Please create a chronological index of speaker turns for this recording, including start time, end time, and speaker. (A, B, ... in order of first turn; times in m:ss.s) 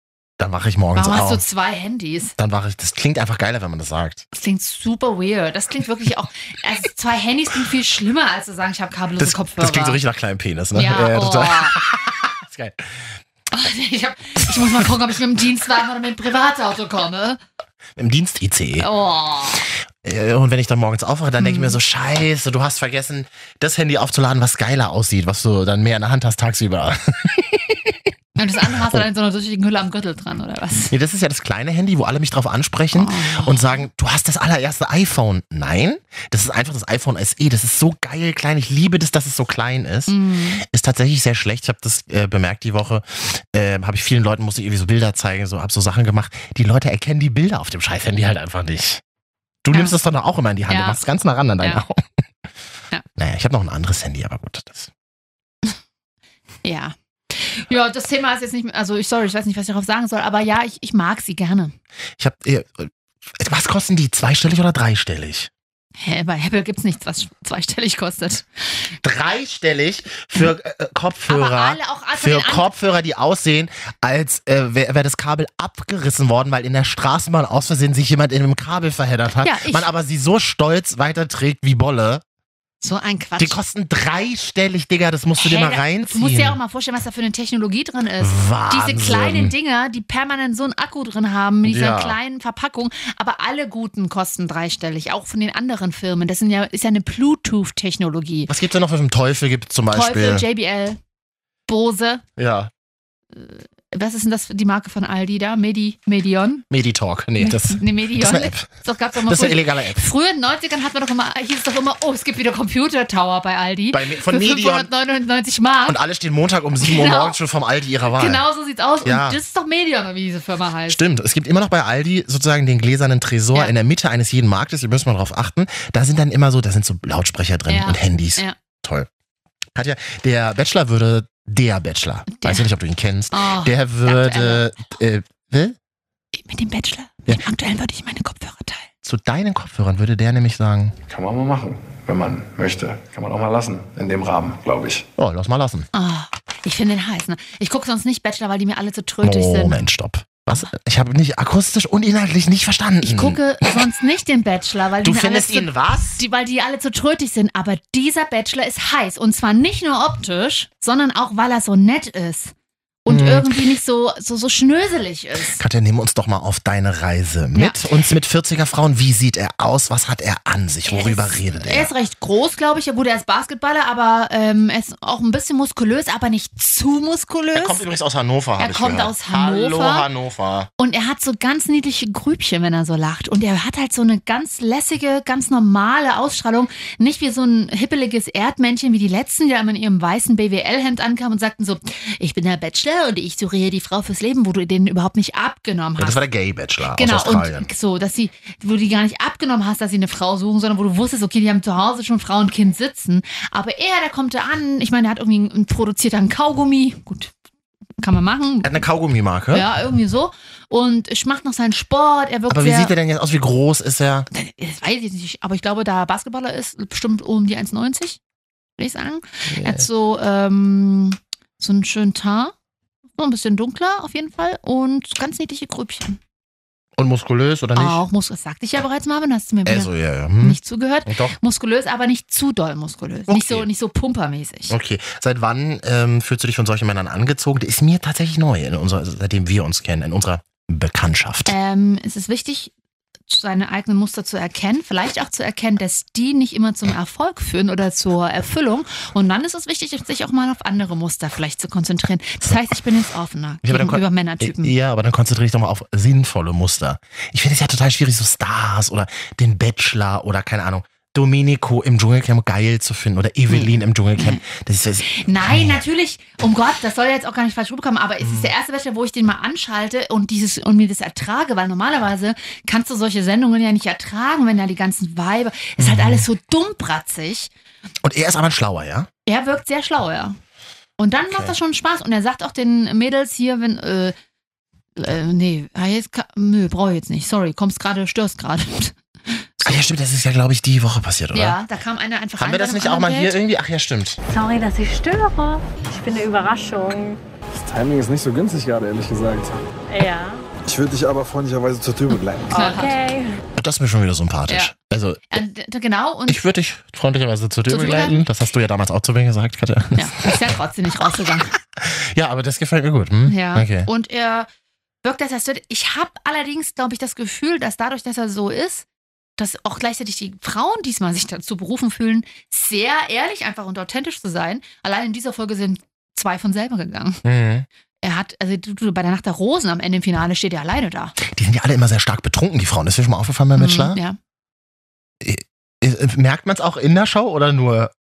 0:00.4-0:01.4 A
0:00.9-0:02.3 B
0:02.4-0:04.2 A
0:04.3-0:10.0 B
0:09.2-0:13.2 A
0:10.7-0:11.8 B
0:13.5-0:17.4 B
0:18.0-0:18.9 A
0:18.8-0:19.7 B
0:20.0-0:28.0 A
0:21.4-0:21.8 B
0:28.4-0:30.9 B
0:28.6-0:29.1 A
0:30.9-0:49.0 A
0:32.9-0:33.8 B
0:40.1-0:40.6 B
0:49.6-0:52.0 A
0:49.7-0:50.0 B
0:50.7-0:51.0 B
0:51.6-0:51.8 B
0:53.2-0:54.9 A
0:56.6-1:01.7 B
1:02.2-1:05.5 A
1:06.0-1:08.9 B
1:09.0-1:22.2 A
1:11.3-1:12.7 B
1:19.4-1:19.9 B
1:22.8-1:23.6 B
1:23.4-1:26.6 A
1:25.4-1:38.5 B
1:28.2-1:29.5 A
1:31.6-1:32.2 A
1:38.5-1:40.4 A
1:39.9-1:41.0 B
1:41.7-1:42.2 B
1:42.4-1:42.7 A
1:43.3-1:46.6 B
1:46.7-1:48.7 A
1:47.4-1:56.0 B
1:49.2-1:50.0 A
1:53.9-1:54.9 A
1:55.8-1:58.4 A
1:56.8-1:57.4 B
1:58.2-2:01.0 B
1:59.0-1:59.4 A
2:00.9-2:09.1 A
2:07.7-2:08.5 B
2:09.7-2:15.8 A
2:12.3-2:12.7 B
2:13.3-2:14.6 B
2:16.3-2:18.9 B
2:19.0-2:21.0 A
2:21.1-2:25.1 C
2:25.2-2:25.9 A
2:25.9-2:29.8 B
2:29.2-2:33.4 A
2:33.0-2:42.5 B
2:35.0-2:36.2 A
2:43.0-2:45.6 B
2:43.1-2:43.6 A
2:45.6-2:51.9 A
2:47.5-2:47.8 B
2:50.9-2:57.8 B
2:57.5-3:00.7 A
2:58.6-3:00.1 B
3:00.8-3:16.2 B
3:16.0-3:17.7 A
3:16.9-3:27.3 B
3:28.0-3:28.8 B
3:28.6-3:29.7 A
3:29.5-3:32.9 B
3:32.5-3:34.3 A
3:34.3-3:38.2 B
3:38.8-3:42.5 B
3:39.5-3:39.8 A
3:43.2-3:46.2 B
3:47.0-3:48.0 A
3:47.8-3:54.7 B
3:49.6-3:51.4 A
3:53.3-3:53.7 A
3:54.7-4:01.5 A
4:01.4-4:02.7 B
4:03.3-4:14.7 B
4:13.6-4:25.8 A
4:23.5-4:24.4 B
4:25.1-4:37.5 B
4:28.2-4:28.5 A
4:35.8-4:36.2 A
4:38.0-4:39.1 A
4:39.2-4:40.4 B
4:41.0-4:44.1 B
4:41.3-4:41.5 A
4:45.0-4:49.8 B
4:49.6-4:51.6 A
4:51.3-4:53.4 B
4:52.4-4:54.2 A
4:54.3-4:57.2 D
4:57.5-4:59.6 E
4:59.9-5:00.4 D
5:00.7-5:02.5 E
5:02.5-5:03.4 D
5:02.5-5:03.0 B
5:03.6-5:05.3 A
5:05.3-5:06.4 B
5:06.3-5:10.5 A
5:07.7-5:08.2 B
5:10.0-5:11.5 B
5:11.8-5:13.9 A
5:13.3-5:14.5 B
5:15.0-5:18.8 B
5:19.4-5:27.2 B
5:27.2-5:27.6 A
5:28.0-5:31.2 B
5:31.2-5:34.0 A
5:33.5-5:34.2 B
5:35.2-5:37.9 A